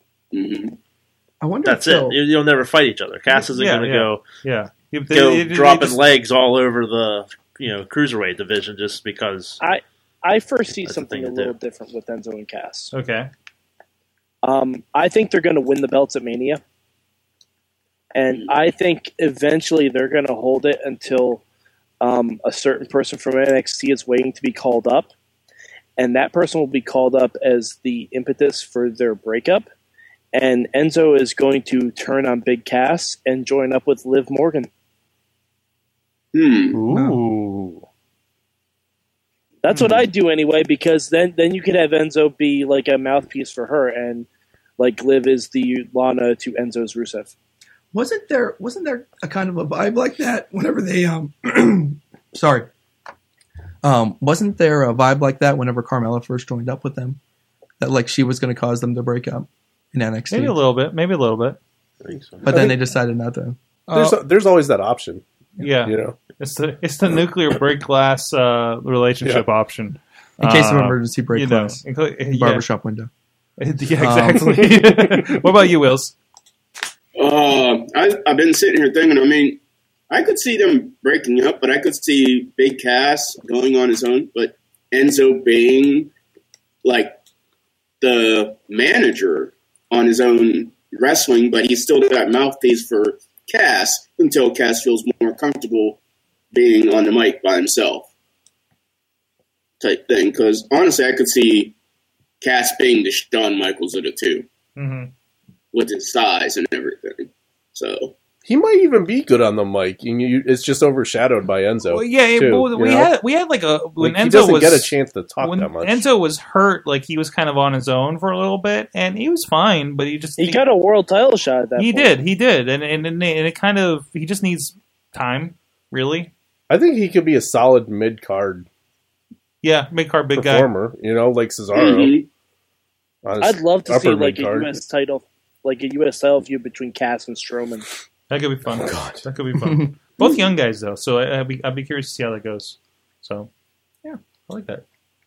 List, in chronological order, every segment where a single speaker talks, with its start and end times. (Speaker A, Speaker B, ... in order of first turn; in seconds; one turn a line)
Speaker A: 0.3-0.8
Speaker B: 1.4-2.2
Speaker C: 1.6-4.2
Speaker D: 3.4-6.0
Speaker C: 5.1-9.6
Speaker E: 9.6-12.9
Speaker C: 10.8-11.5
Speaker D: 12.9-13.3
Speaker E: 14.4-16.6
Speaker E: 18.1-21.4
Speaker E: 22.0-25.1
Speaker E: 26.0-29.7
Speaker E: 30.3-34.7
Speaker A: 36.3-36.8
Speaker D: 36.7-37.8
Speaker B: 36.9-37.2
Speaker E: 39.6-44.3
Speaker D: 39.7-40.1
Speaker E: 44.8-47.3
Speaker B: 47.9-52.7
Speaker B: 53.8-57.2
Speaker B: 57.8-60.6
Speaker D: 60.3-61.6
Speaker C: 62.0-62.7
Speaker B: 62.4-64.1
Speaker F: 63.9-65.2
Speaker D: 65.6-72.7
Speaker F: 65.8-66.2
Speaker B: 70.4-73.1
Speaker D: 73.6-76.1
Speaker B: 73.9-74.7
Speaker F: 74.8-75.4
Speaker A: 77.2-86.1
Speaker A: 86.8-87.2
Speaker A: 88.0-96.0
Speaker A: 96.5-98.1
Speaker A: 99.8-101.7
Speaker A: 102.4-104.5
Speaker D: 104.8-105.1
Speaker A: 105.7-108.1
Speaker F: 108.4-113.1
Speaker D: 111.9-120.6
Speaker F: 114.0-116.0
Speaker E: 120.4-122.2
Speaker D: 121.8-126.3
Speaker F: 126.7-128.7
Speaker D: 129.6-130.7
Speaker F: 130.3-132.2
Speaker A: 131.7-132.3
Speaker F: 133.2-134.7
Speaker E: 133.4-137.9
Speaker D: 138.3-143.5
Speaker B: 139.5-140.3
Speaker D: 144.0-144.8